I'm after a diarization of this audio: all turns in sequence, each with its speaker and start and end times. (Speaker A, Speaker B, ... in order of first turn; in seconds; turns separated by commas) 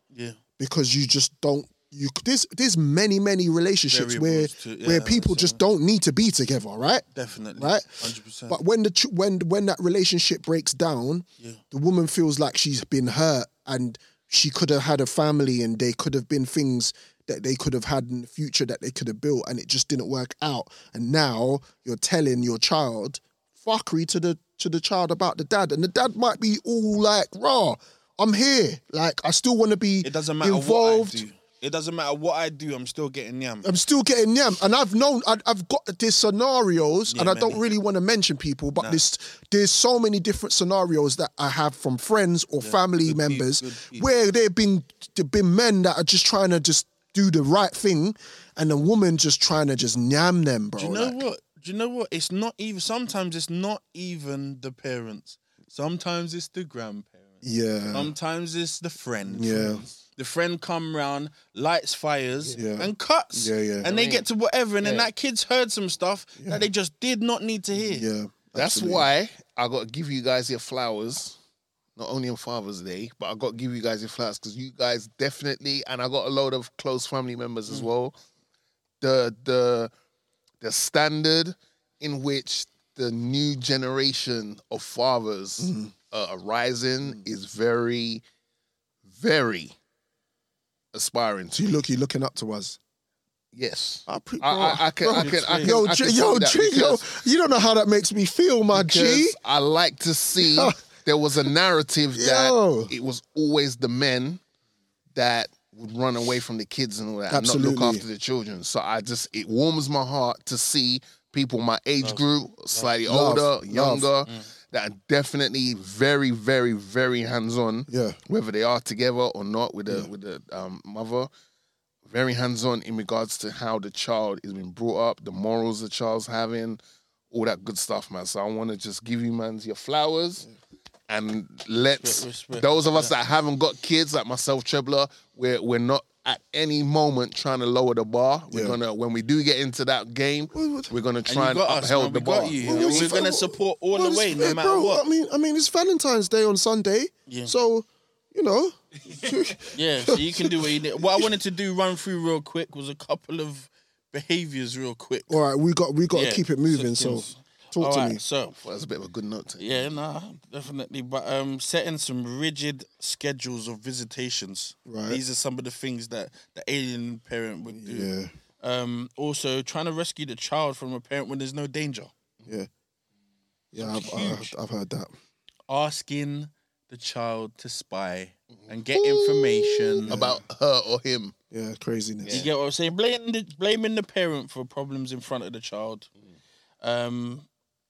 Speaker A: 0.1-0.4, Speaker B: 0.6-31.2, Speaker A: 3.9-5.6, Speaker A: 7.1-8.6, Speaker A: 30.0-33.7, Speaker B: 33.6-51.2, Speaker A: 37.1-37.6, Speaker A: 42.6-44.1, Speaker A: 50.8-68.1, Speaker B: 57.4-58.1, Speaker B: 59.3-59.8, Speaker B: 62.5-63.9, Speaker C: 63.8-64.2, Speaker C: 64.8-65.1, Speaker B: 66.4-66.7, Speaker B: 67.7-69.1, Speaker C: 68.5-71.4, Speaker C: 72.0-78.1, Speaker C: 79.0-79.9, Speaker C: 80.6-88.2, Speaker B: 85.6-85.9, Speaker C: 89.1-89.7, Speaker C: 90.9-91.6, Speaker B: 91.5-92.8, Speaker C: 93.5-97.1, Speaker B: 94.1-99.3, Speaker A: 95.1-95.8, Speaker C: 98.7-104.4, Speaker B: 100.4-100.8, Speaker B: 102.1-102.9, Speaker C: 105.1-121.3, Speaker B: 107.3-108.0, Speaker A: 112.0-112.9, Speaker B: 113.0-114.1, Speaker B: 117.9-118.2, Speaker C: 122.0-126.8, Speaker C: 127.3-130.5, Speaker C: 131.1-143.3, Speaker A: 132.0-133.1, Speaker B: 138.5-138.8, Speaker B: 140.5-140.9, Speaker A: 141.3-145.0, Speaker B: 142.6-151.3, Speaker A: 147.3-147.5, Speaker A: 149.7-155.4, Speaker B: 155.3-158.2, Speaker A: 156.1-158.6, Speaker C: 158.6-159.9, Speaker A: 159.6-172.1, Speaker B: 164.8-165.2, Speaker B: 167.7-168.3, Speaker B: 173.7-175.1, Speaker A: 173.8-174.5, Speaker A: 175.7-180.2, Speaker C: 178.5-181.3, Speaker B: 180.1-180.4, Speaker B: 181.5-182.4, Speaker C: 182.2-182.5, Speaker A: 182.3-186.1, Speaker A: 186.8-187.4